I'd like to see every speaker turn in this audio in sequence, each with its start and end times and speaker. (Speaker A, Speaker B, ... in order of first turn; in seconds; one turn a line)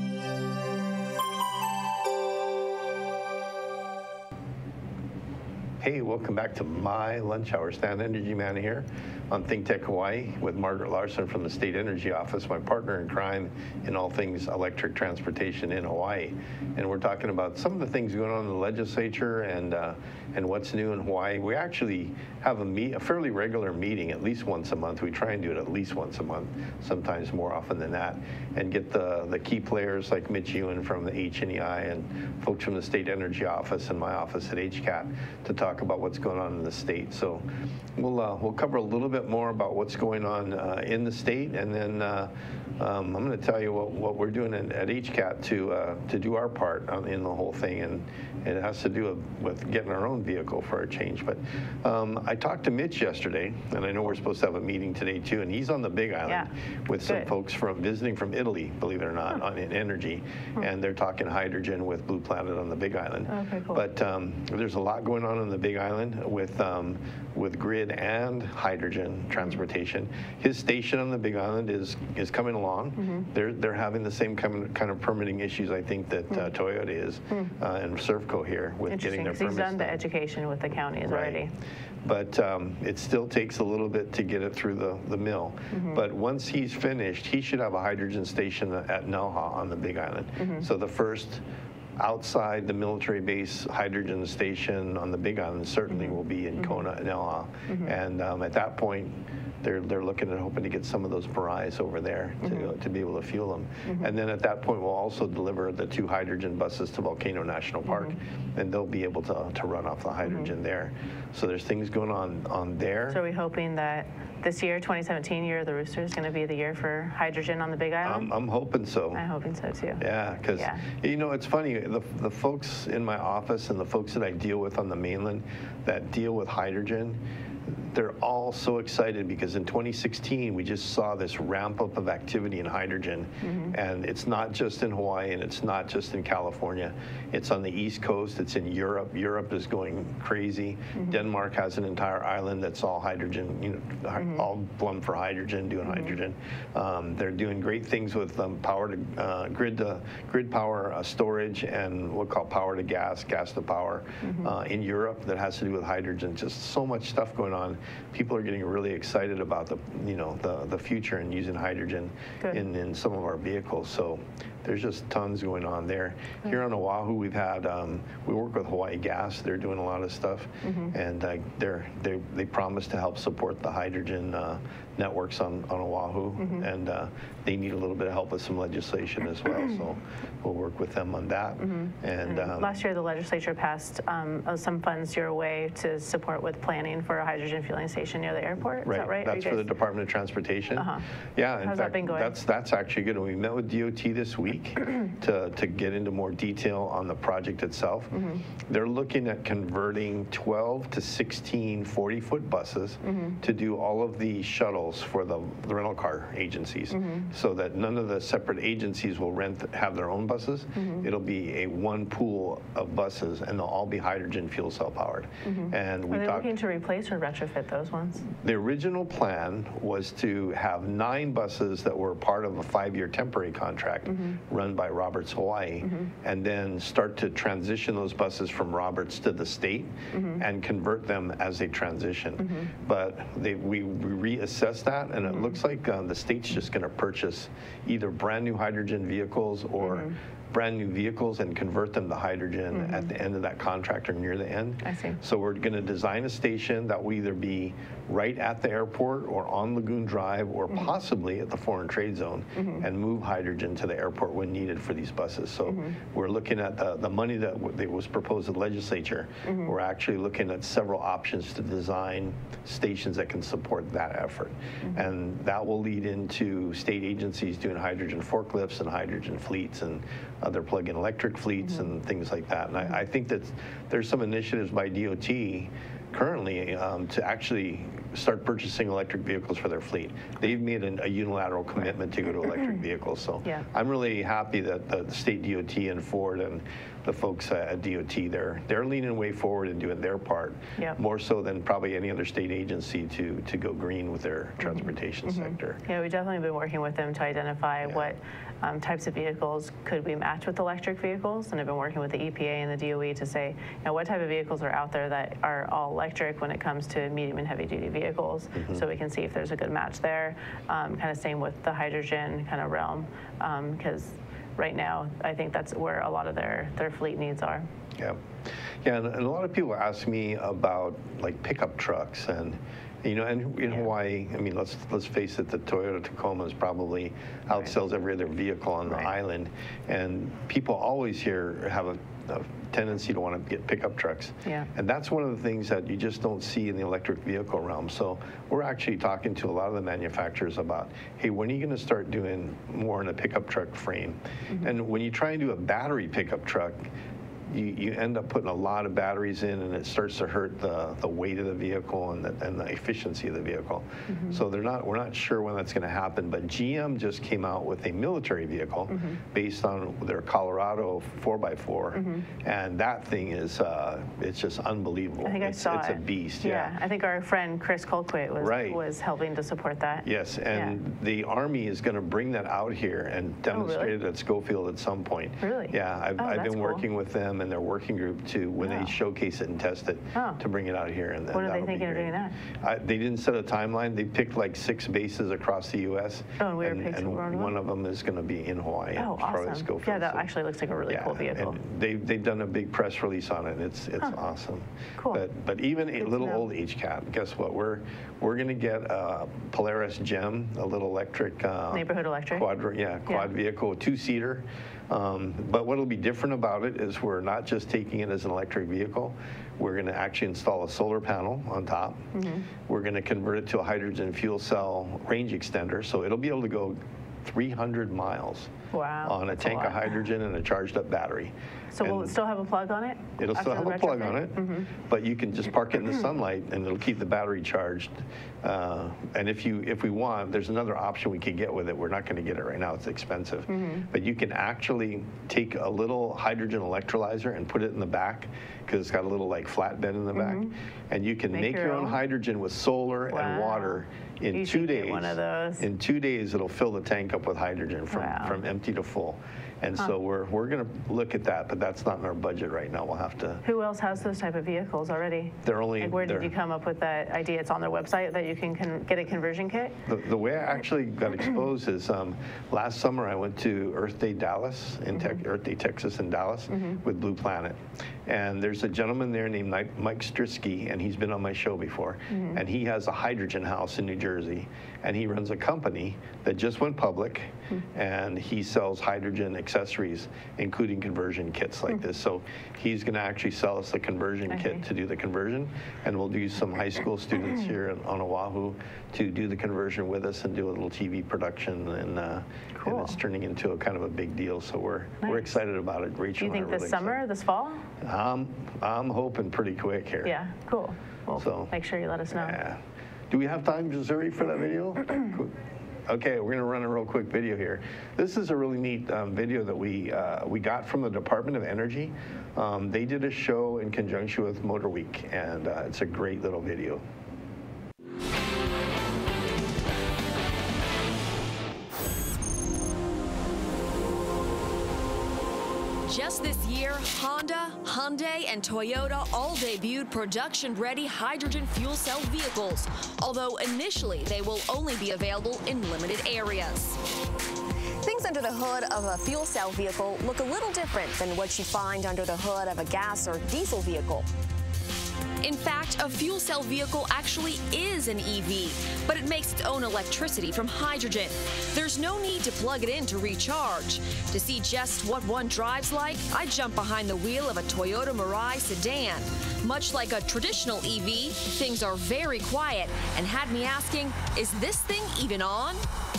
Speaker A: 5.8-37.4
Speaker A: 38.0-80.0
Speaker B: 57.0-57.3
Speaker B: 63.3-63.8
Speaker B: 73.0-73.3
Speaker B: 78.9-81.5
Speaker A: 81.0-81.4
Speaker A: 82.0-91.4
Speaker B: 85.7-86.0
Speaker B: 90.4-90.7
Speaker A: 92.0-113.2
Speaker B: 95.9-96.8
Speaker B: 102.4-102.7
Speaker B: 107.9-108.1
Speaker B: 110.2-110.5
Speaker B: 113.1-118.3
Speaker A: 118.0-119.2
Speaker B: 119.1-120.8
Speaker A: 120.0-182.8
Speaker B: 133.4-133.7
Speaker B: 154.2-154.5
Speaker B: 170.6-170.9
Speaker B: 176.4-176.7
Speaker B: 181.6-189.7
Speaker A: 188.8-216.6
Speaker B: 190.8-191.0
Speaker B: 191.6-192.4
Speaker B: 198.1-198.4
Speaker B: 203.0-203.4
Speaker B: 206.9-207.3
Speaker B: 210.8-211.1
Speaker B: 215.4-218.3
Speaker A: 218.4-295.8
Speaker B: 225.8-226.1
Speaker B: 230.1-230.4
Speaker B: 232.4-232.7
Speaker B: 239.8-240.1
Speaker B: 242.7-243.1
Speaker B: 244.8-245.2
Speaker B: 252.6-252.8
Speaker B: 255.7-255.9
Speaker B: 259.4-259.7
Speaker B: 294.6-317.6
Speaker A: 297.8-298.1
Speaker A: 308.5-308.8
Speaker A: 318.0-318.2
Speaker A: 318.8-346.9
Speaker A: 347.5-366.8
Speaker B: 354.1-354.4
Speaker B: 358.9-359.2
Speaker B: 361.9-362.2
Speaker B: 365.2-370.8
Speaker A: 368.4-368.8
Speaker A: 370.0-390.3
Speaker B: 373.5-373.9
Speaker B: 375.4-376.8
Speaker B: 378.6-378.9
Speaker B: 380.1-380.4
Speaker B: 381.3-382.3
Speaker B: 386.4-387.5
Speaker B: 388.9-391.6
Speaker A: 390.9-412.1
Speaker B: 395.0-395.2
Speaker B: 396.0-396.4
Speaker B: 401.7-402.5
Speaker B: 412.1-412.5
Speaker A: 412.7-418.5
Speaker B: 418.7-419.9
Speaker A: 419.0-422.1
Speaker B: 421.7-424.7
Speaker A: 423.2-453.4
Speaker B: 433.5-433.8
Speaker B: 440.1-440.5
Speaker B: 441.3-442.0
Speaker B: 443.1-443.8
Speaker B: 444.3-445.7
Speaker B: 447.9-448.4
Speaker B: 453.4-459.7
Speaker A: 455.4-456.4
Speaker A: 459.9-497.0
Speaker B: 464.9-465.2
Speaker B: 466.5-466.8
Speaker B: 472.1-472.4
Speaker B: 484.3-484.6
Speaker B: 492.6-493.0
Speaker B: 496.2-497.6
Speaker A: 497.8-500.2
Speaker B: 500.0-502.4
Speaker A: 501.1-501.5
Speaker A: 502.1-516.8
Speaker C: 525.9-536.8
Speaker D: 537.8-544.0
Speaker C: 545.2-565.6